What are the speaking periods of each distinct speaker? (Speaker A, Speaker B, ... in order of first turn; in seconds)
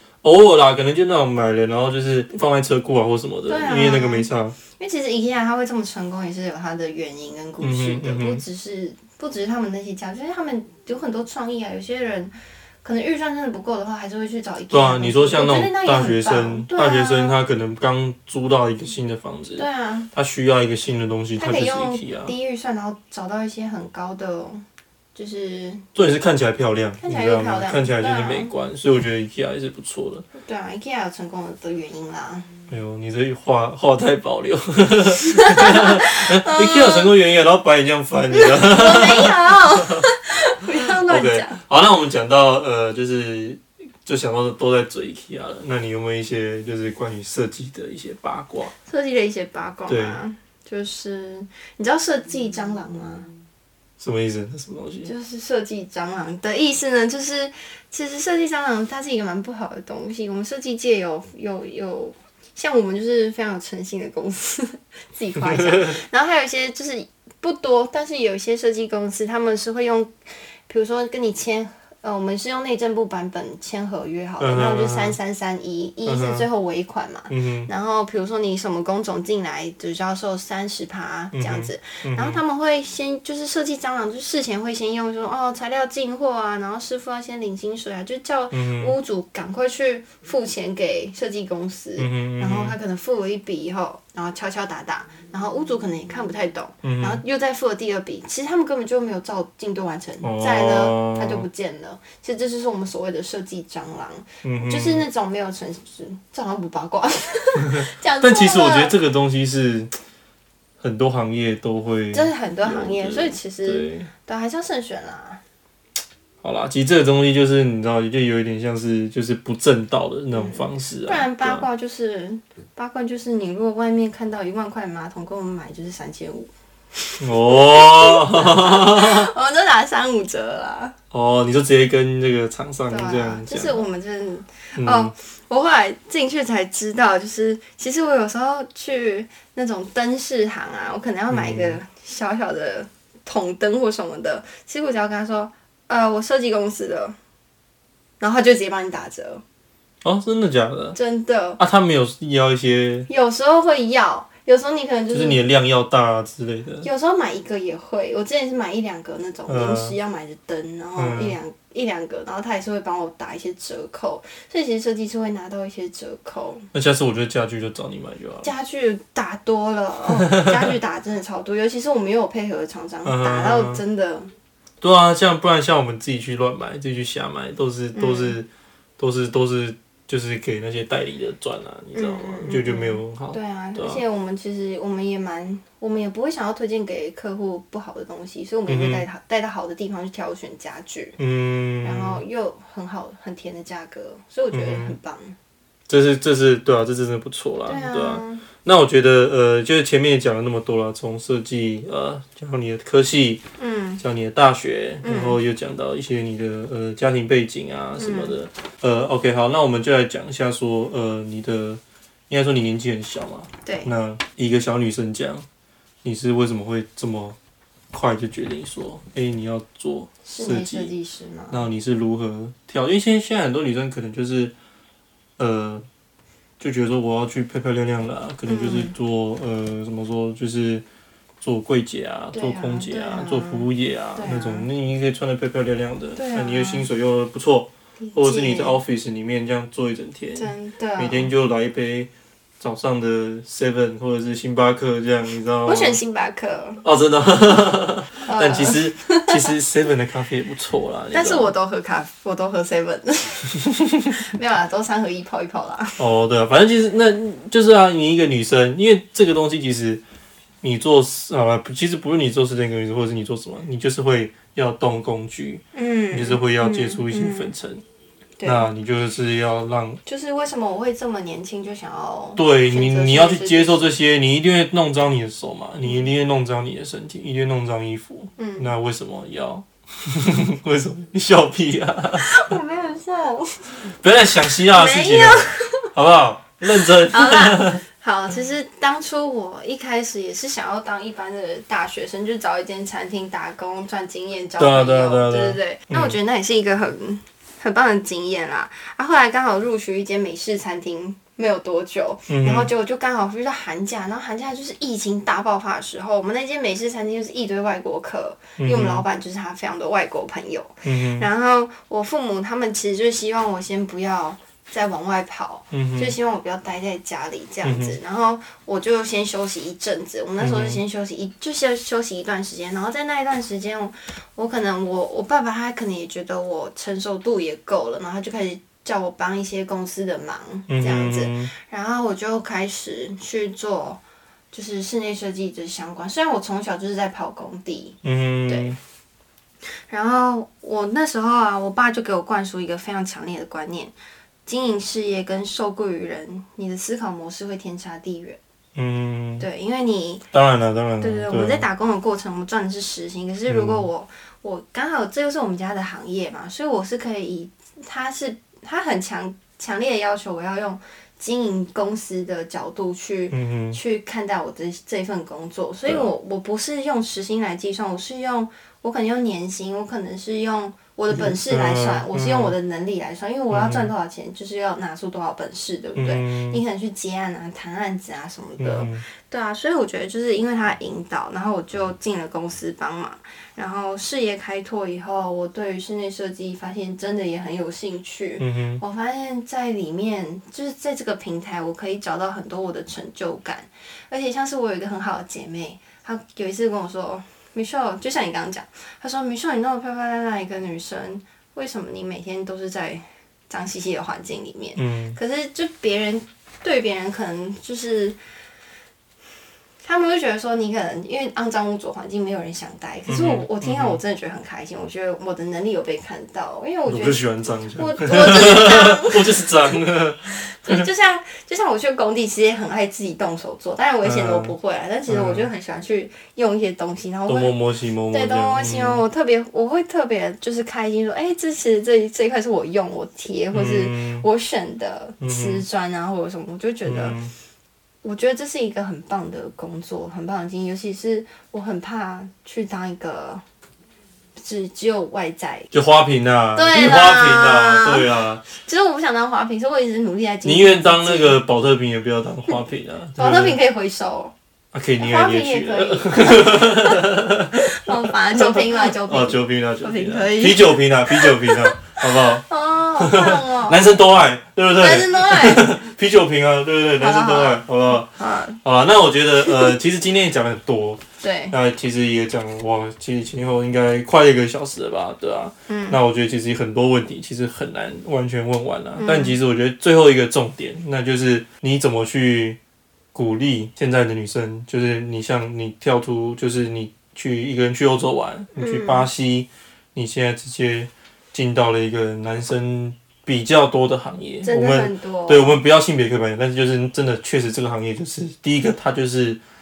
Speaker A: 0.2-4.6, 7.6-8.4, 14.7-22.3, 25.9-30.3, 32.7-40.1, 40.9-48.7, 49.9-50.2, 54.0-55.1, 65.4-66.0, 74.4-75.2, 76.1-76.5, 77.3-77.7, 81.3-82.4, 88.5-88.9, 92.0-92.8, 96.8-97.2, 100.2-101.5, 104.4-105.0, 107.7-109.9, 110.8-114.1, 116.4-121.7, 127.2-129.3, 131.1-133.8, 134.8-135.1, 141.3-141.8, 150.0-151.0, 151.6-153.1, 155.1-156.9, 159.5-160.0, 161.0-161.4, 166.7-168.5, 170.2-170.7, 173.1-173.8, 174.8-184.0, 188.7-189.1, 191.2-192.2, 194.5-195.0, 195.9-203.4, 204.0-215.4, 216.0-217.4, 217.9-220.9, 221.5-224.5, 225.4-225.8, 226.6-230.8, 231.4-246.0, 246.8-251.5, 253.8-254.1, 256.0-260.0, 260.6-267.8, 268.4-270.0, 272.4-282.5, 283.9-287.8, 294.6-296.2, 302.3-302.7, 308.6-309.0, 310.8-311.3, 315.7-316.1, 317.6-318.0, 320.4-320.8, 330.7-331.5, 338.0-338.8, 348.8-349.5, 350.3-351.7, 353.5-353.9, 363.3-363.8, 371.1-372.5, 373.5-373.9, 376.0-376.6, 378.6-379.0, 388.4-388.8, 404.8-405.2, 413.1-414.0, 416.9-420.8, 424.0-424.6, 425.1-425.5, 427.3-429.0, 433.5-434.2, 435.2-435.6, 436.9-437.3, 445.7-448.4, 450.4-453.6, 454.7-457.8, 458.4-462.4, 463.0-468.1, 468.6-482.6, 483.1-499.4
Speaker B: 3.5-17.4, 19.6-20.1, 21.4-25.9, 27.0-28.5, 30.4-32.5, 35.2-37.1, 38.3-41.6, 48.8-53.3, 55.0-70.1, 70.7-109.0, 112.1-115.4, 120.3-131.0, 132.9-147.2, 148.2-149.4, 150.9-151.6, 153.1-155.4, 156.8-166.7, 168.4-174.3, 177.9-178.4, 181.9-191.2, 191.8-195.4, 197.7-198.4, 203.6-204.0, 205.0-205.4, 208.0-208.3, 213.7-213.9, 220.3-221.6, 228.5-228.9, 232.3-234.7, 236.2-236.9, 238.0-238.8, 240.4-241.3, 245.7-246.8, 248.2-249.4, 251.1-256.0, 265.7-267.5, 268.4-268.7, 270.1-273.9, 278.4-278.7, 282.2-283.8, 284.7-285.9, 286.7-334.0, 334.5-338.8, 339.9-343.9, 344.5-348.4, 349.4-350.3, 351.0-408.2, 409.8-419.8, 420.3-427.6, 428.1-437.2, 438.0-443.4, 444.4-445.7, 446.6-451.4, 453.2-454.3, 455.0-463.9, 464.8-465.7, 467.0-468.6, 469.4-469.7, 471.2-471.6, 475.7-476.0, 479.0-479.4, 488.6-489.1, 494.4-495.6